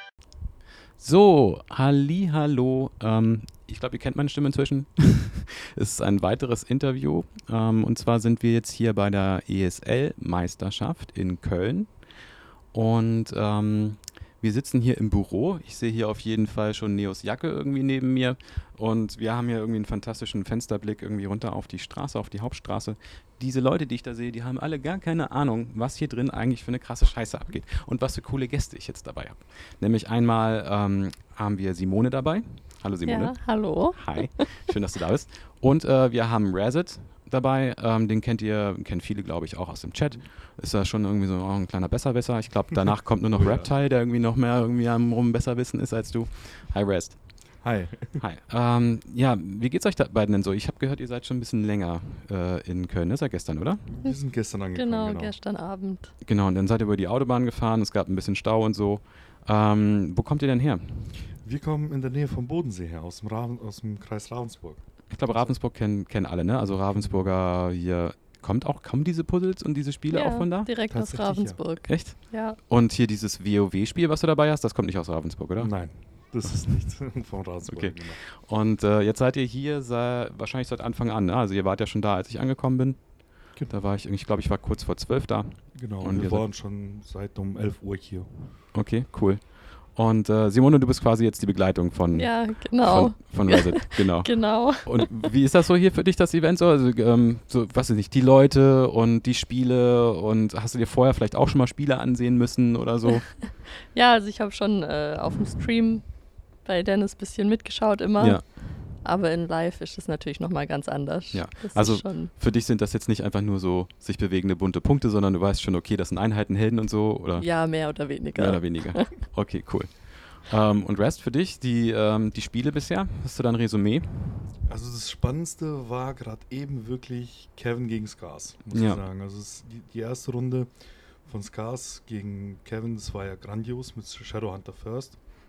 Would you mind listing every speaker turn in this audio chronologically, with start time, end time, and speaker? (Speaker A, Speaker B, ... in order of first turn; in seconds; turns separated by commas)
Speaker A: 1.0-53.9, Speaker B: 33.1-34.6, Speaker C: 43.3-43.7, Speaker C: 47.6-48.2, Speaker C: 53.9-55.4, Speaker B: 54.0-56.1, Speaker A: 56.2-61.3, Speaker C: 61.4-65.6, Speaker A: 65.1-70.7, Speaker B: 70.1-72.6, Speaker C: 70.7-71.9, Speaker A: 71.8-76.5, Speaker C: 75.6-78.2, Speaker A: 77.7-86.5, Speaker C: 85.7-88.6, Speaker A: 88.7-103.5, Speaker B: 92.1-95.0, Speaker B: 103.5-112.3, Speaker A: 108.2-108.8, Speaker A: 111.3-124.5, Speaker B: 117.4-119.2, Speaker C: 124.7-135.2, Speaker A: 128.7-129.0